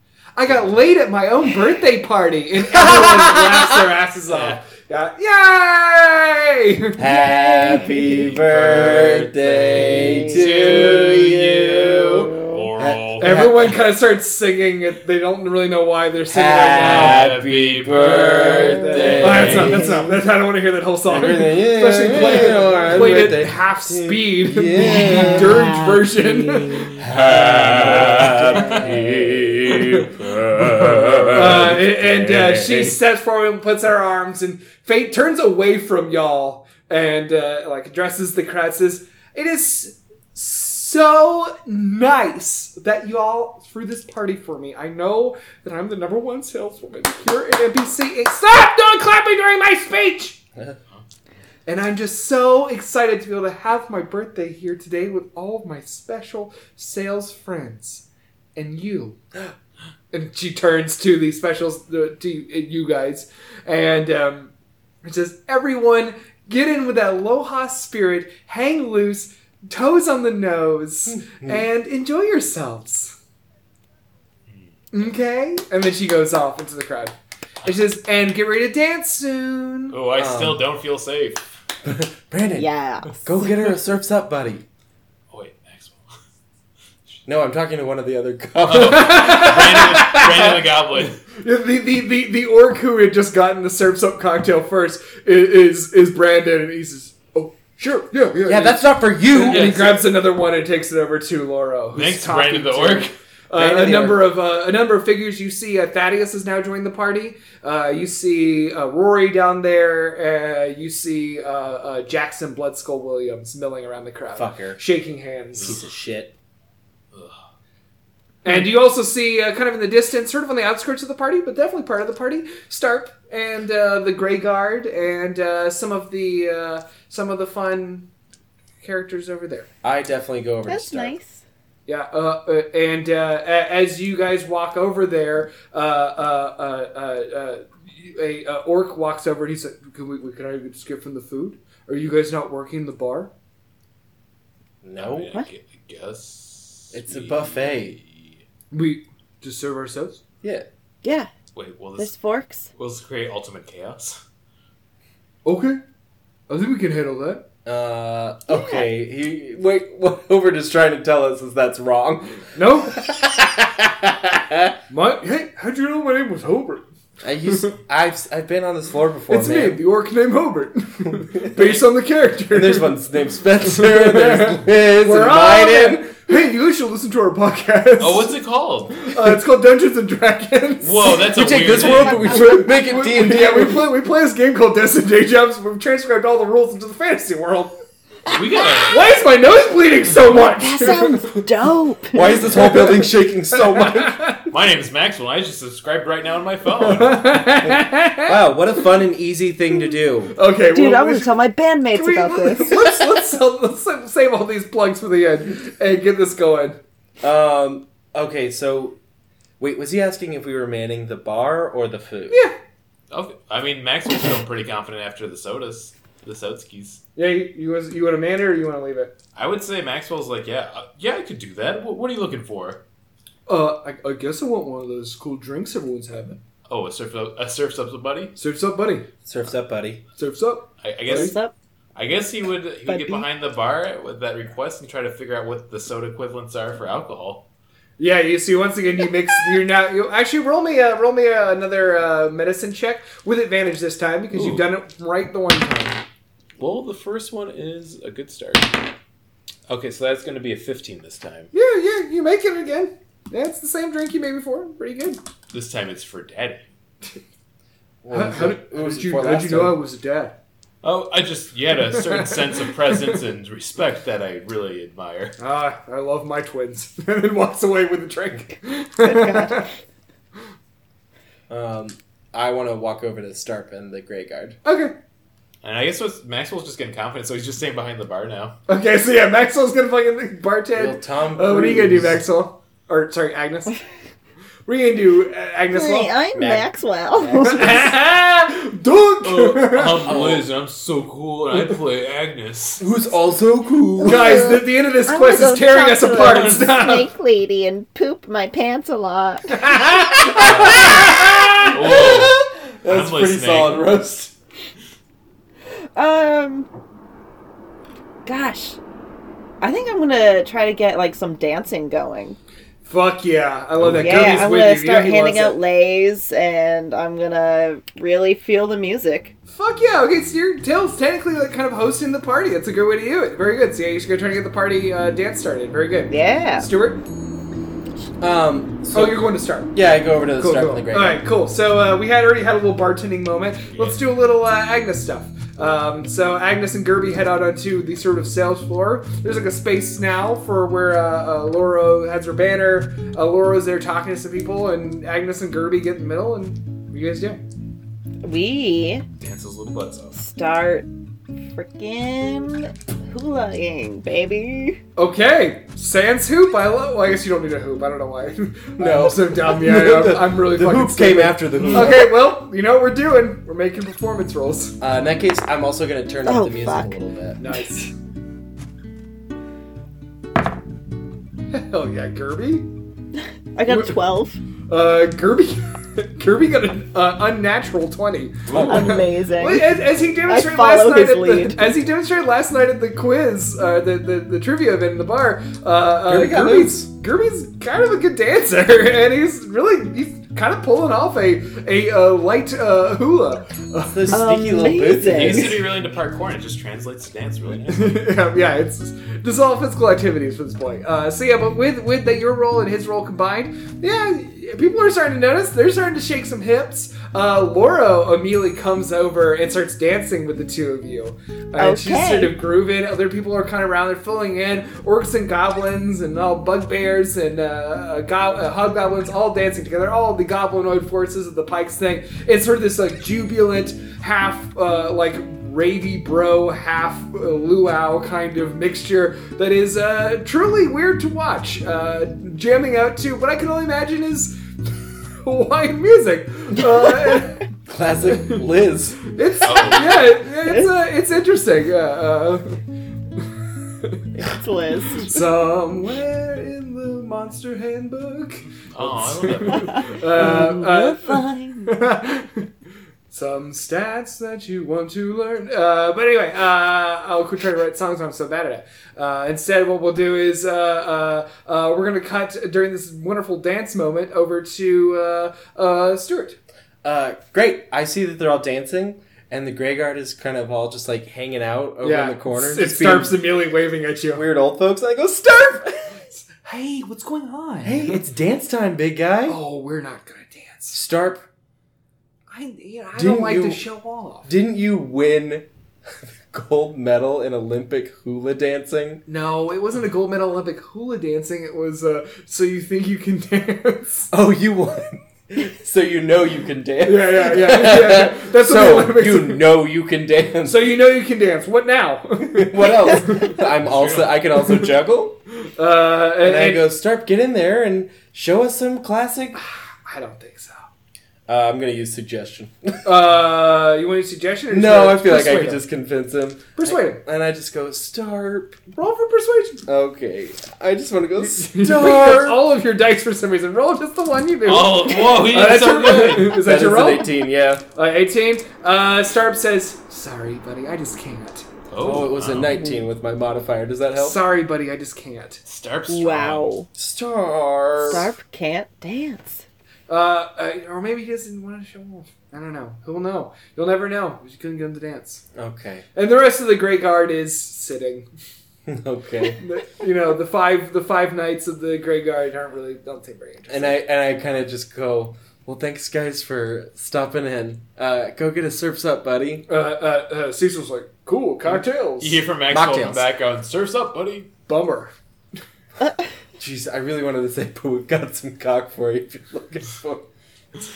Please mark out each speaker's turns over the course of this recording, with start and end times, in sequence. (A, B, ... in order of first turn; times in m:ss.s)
0:00.4-0:07.0 A
0:02.7-0:03.6 B
0:04.3-0:04.6 C
0:07.0-0:13.7 B
0:07.2-0:08.2 D
0:08.1-0:13.7 C
0:13.2-0:17.2 A
0:16.3-0:20.2 B
0:16.8-0:19.9 C
0:18.9-0:27.0 A
0:21.1-0:25.8 B
0:24.8-0:26.9 D
0:27.0-0:32.9 B
0:27.1-0:28.9 C
0:29.6-0:31.8 C
0:31.3-0:50.4 A
0:51.6-0:58.0 A
0:58.6-0:59.2 A
1:00.1-1:04.5 A
1:05.0-1:13.2 A
1:11.1-1:11.6 B
1:14.5-1:15.0 C
1:14.9-1:20.0 A
1:19.9-1:21.4 C
1:20.1-1:20.6 B
1:21.8-1:24.6 B
1:22.6-1:23.2 D
1:25.3-1:26.1 C
1:27.2-1:29.5 B
1:28.6-1:31.2 C
1:28.8-1:30.6 A
1:31.4-1:55.8 A
1:38.4-1:39.9 B
1:39.5-1:40.0 C
1:41.9-1:43.1 C
1:43.5-1:44.3 B
1:54.4-1:54.8 B
1:55.6-1:56.3 B
1:57.1-1:57.4 C
1:58.4-2:08.1 A
2:08.8-2:09.7 A
2:09.8-2:11.2 B
2:10.7-2:11.4 D
2:11.8-2:23.3 A
2:24.8-2:25.3 B
2:25.0-2:28.4 C
2:26.9-2:28.0 B
2:28.7-2:30.2 A
2:31.0-2:31.3 D
2:31.5-2:32.2 C
2:32.0-2:32.7 D
2:32.7-2:34.2 C
2:35.4-2:35.8 A
2:36.5-2:37.5 A
2:37.6-2:44.8 B
2:38.5-2:38.8 D
2:42.5-2:43.0 A
2:44.9-2:46.9 A
2:47.2-2:49.8 B
2:49.3-2:52.9 A
2:51.4-2:51.7 B
2:52.5-2:56.0 B
2:53.7-2:58.3 A
2:58.0-2:59.1 C
2:59.0-3:07.7 A
3:00.8-3:02.3 C
3:01.3-3:03.9 B
3:08.3-3:09.2 C
3:08.3-3:08.8 D
3:08.9-3:11.4 A
3:10.4-3:12.3 D
3:12.1-3:14.4 B
3:12.4-3:14.4 A
3:14.5-3:17.3 C
3:16.8-3:18.4 A
3:17.6-3:20.3 B
3:20.3-3:21.3 A
3:20.7-3:22.8 D
3:21.9-3:26.8 A
3:27.2-3:29.0 B
3:29.6-3:32.4 B
3:32.3-3:32.6 A
3:33.1-3:37.0 C
3:37.2-3:39.2 A
3:39.3-3:42.8 C
3:43.5-3:46.4 A
3:46.7-3:48.3 C
3:48.4-3:49.1 A
3:49.2-3:50.0 B
3:50.2-3:51.4 A
3:50.8-3:51.3 C
3:51.1-3:51.5 D
3:51.9-3:57.4 C
3:52.8-3:53.3 D
3:58.0-4:06.0 A
4:04.3-4:04.7 C
4:06.6-4:08.8 C
4:09.7-4:11.5 C
4:11.5-4:15.2 A
4:15.5-4:16.6 C
4:18.0-4:19.8 B
4:18.1-4:20.4 A
4:20.8-4:25.4 C
4:21.9-4:22.6 A
4:25.4-4:29.7 A
4:29.0-4:29.6 D
4:31.5-4:34.6 B
4:34.6-4:35.0 A
4:35.6-4:38.6 C
4:38.7-4:43.8 A
4:40.7-4:42.2 B
4:44.6-4:46.2 A
4:45.7-4:47.9 D
4:46.3-4:46.7 B
4:47.3-4:50.3 A
4:49.2-4:52.9 C
4:50.0-4:50.4 B
4:52.8-4:54.6 B
4:54.0-4:57.1 A
4:54.0-5:00.5 D
4:56.2-4:56.5 C
4:59.6-5:01.7 A
5:00.3-5:04.0 C
5:00.6-5:01.0 B
5:01.7-5:04.3 B
5:05.9-5:06.7 D
5:08.2-5:08.8 D
5:09.6-5:12.4 D
5:12.8-5:15.6 A
5:13.9-5:19.3 D
5:19.5-5:27.0 A
5:26.1-5:26.7 D
5:28.2-5:31.2 B
5:28.9-5:29.7 A
5:30.4-5:47.4 A
5:33.7-5:34.0 C
5:48.2-5:49.0 D
5:49.2-5:50.2 C
5:50.1-5:50.9 D
5:51.5-5:54.8 D
5:55.0-6:04.8 A
5:58.8-6:02.2 B
6:04.8-6:07.4 B
6:06.2-6:07.0 D
6:07.4-6:07.9 A
6:11.5-6:12.7 A
6:13.5-6:14.4 D
6:13.7-6:14.0 A
6:14.7-6:34.2 A
6:18.5-6:19.0 C
6:18.6-6:21.7 D
6:26.0-6:26.9 B
6:33.8-6:35.6 B
6:34.1-6:35.6 D
6:35.0-6:38.0 C
6:37.7-7:14.4 A
6:51.6-6:52.3 D
7:15.2-7:17.5 A
7:17.7-7:19.0 B
7:18.1-7:18.4 A
7:19.1-7:22.6 A
7:19.4-7:20.2 C
7:24.2-7:25.2 D
7:24.9-7:32.4 A
7:28.7-7:30.3 C
7:30.1-7:31.8 D
7:33.1-7:46.4 A
7:46.8-7:53.2 B
7:51.8-7:54.2 A
7:54.1-7:55.7 B
7:55.9-7:58.0 A
7:57.6-7:59.4 B
7:59.3-8:00.8 A
8:00.7-8:01.2 B
8:02.3-8:04.3 A
8:02.9-8:03.6 B
8:04.2-8:05.5 B
8:06.3-8:09.0 B
8:09.1-8:14.1 A
8:14.1-8:20.8 B
8:16.8-8:19.5 A
8:20.4-8:23.4 A
8:22.3-8:25.2 B
8:23.6-8:24.1 C
8:25.6-8:26.6 A
8:26.2-8:29.4 B
8:29.3-8:30.7 A
8:31.3-8:33.0 B
8:32.8-8:35.6 A
8:34.5-8:38.7 B
8:36.6-8:37.0 A
8:38.7-8:39.6 A
8:39.7-8:42.5 B
8:41.2-8:47.2 A
8:44.4-8:46.4 C
8:46.2-8:47.6 B
8:47.7-8:51.5 A
8:51.7-8:52.6 C
8:51.8-8:54.2 B
8:54.0-8:55.4 A
8:55.4-8:56.5 C
8:55.9-8:56.7 D
8:56.8-8:58.1 B
8:57.9-8:59.4 D
8:59.9-9:05.2 A
9:05.3-9:05.8 B
9:05.9-9:08.1 A
9:08.7-9:09.4 B
9:09.4-9:13.8 A
9:13.5-9:19.5 B
9:19.5-9:22.2 A
9:21.5-9:24.3 C
9:22.5-9:23.1 B
9:24.5-9:24.9 A
9:26.4-9:30.0 B